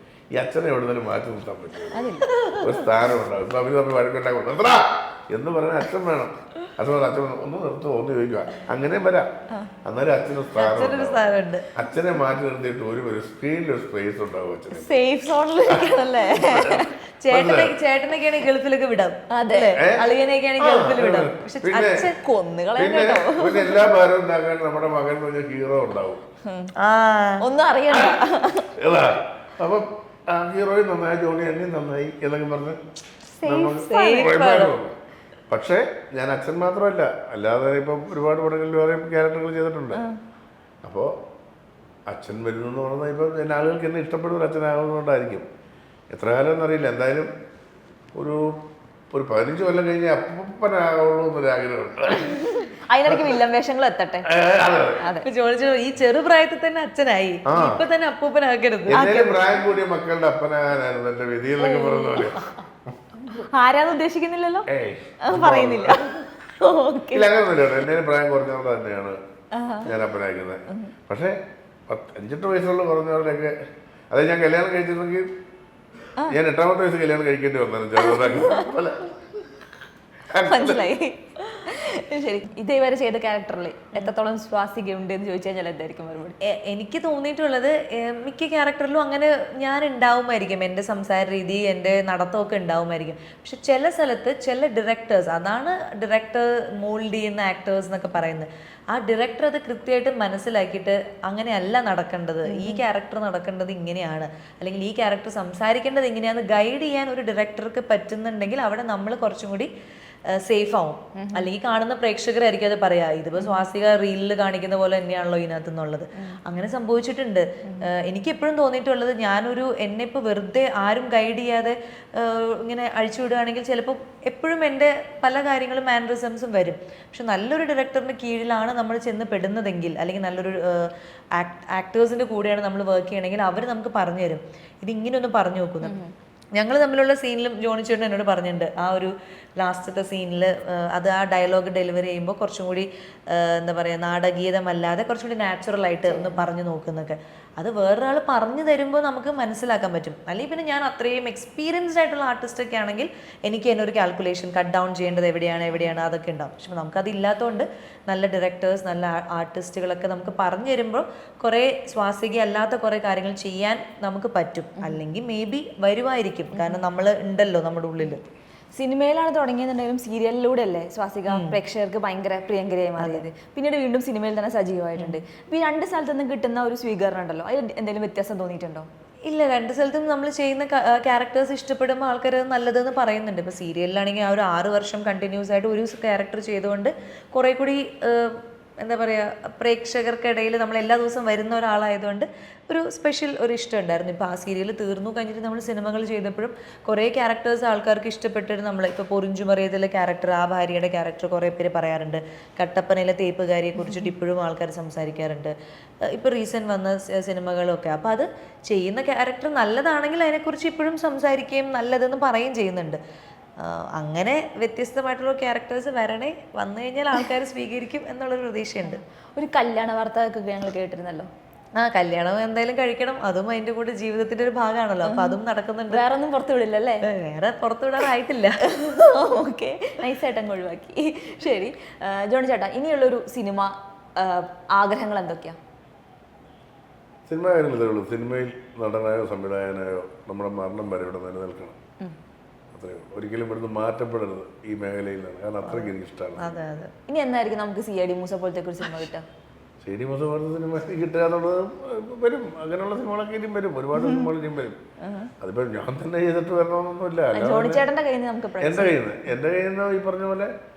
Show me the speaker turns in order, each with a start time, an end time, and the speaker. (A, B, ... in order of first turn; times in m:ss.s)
0:00.4-0:09.3 A
0:01.9-0:02.3 B
0:02.3-0:02.7 C
0:09.8-0:11.2 A
0:10.6-0:11.7 C
0:11.8-0:15.0 A
0:14.7-0:16.9 B
0:15.7-0:17.7 A
0:17.2-0:22.2 C
0:19.3-0:19.8 B
0:19.8-0:20.1 A
0:20.6-0:22.1 A
0:22.2-0:23.8 B
0:22.8-0:26.2 A
0:26.5-0:26.7 B
0:26.8-0:27.4 C
0:27.4-0:28.7 B
0:27.9-0:32.8 A
0:33.4-0:34.8 C
0:33.4-0:34.9 A
0:33.7-0:34.4 B
0:35.5-0:40.0 A
0:39.9-0:40.2 B
0:40.8-0:41.1 A
0:42.1-0:45.5 A
0:46.1-0:47.3 A
0:48.1-0:48.6 A
0:49.1-0:52.5 A
0:52.2-0:54.3 B
0:54.3-0:55.0 A
0:55.0-0:55.3 B
0:55.2-0:59.7 C
0:57.5-0:57.8 A
0:58.9-1:02.5 A
1:01.6-1:02.3 B
1:03.2-1:04.7 B
1:04.7-1:06.0 A
1:05.3-1:07.3 B
1:07.1-1:09.2 A
1:09.5-1:09.9 B
1:09.8-1:11.4 A
1:11.9-1:13.5 A
1:14.1-1:15.3 A
1:16.3-1:19.4 A
1:18.0-1:18.6 B
1:20.3-1:20.9 A
1:20.4-1:26.4 B
1:26.4-1:49.7 C
1:42.5-1:42.8 B
1:50.4-2:16.0 C
1:51.2-1:51.5 B
1:53.4-1:53.7 B
2:15.8-2:16.1 B
2:16.6-2:48.2 C
2:26.1-2:26.5 B
2:35.7-2:36.0 B
2:46.5-2:46.8 B
2:48.8-2:58.9 B
2:51.3-2:51.6 C
2:53.0-2:53.3 C
2:59.3-3:25.5 C
3:23.8-3:24.1 B
3:26.1-3:33.0 C
3:33.6-3:39.0 C
3:38.8-3:41.3 B
3:41.8-3:46.0 C
3:45.0-3:45.4 B
3:45.9-3:47.1 B
3:47.0-3:48.6 C
3:48.6-3:55.6 B
3:57.3-4:01.8 A
4:02.7-4:06.6 A
4:05.6-4:06.9 C
4:07.1-4:09.2 B
4:09.8-4:14.8 A
4:14.0-4:14.3 B
4:15.0-4:15.3 B
4:15.4-4:17.9 A
4:17.3-4:19.0 B
4:18.6-4:20.5 A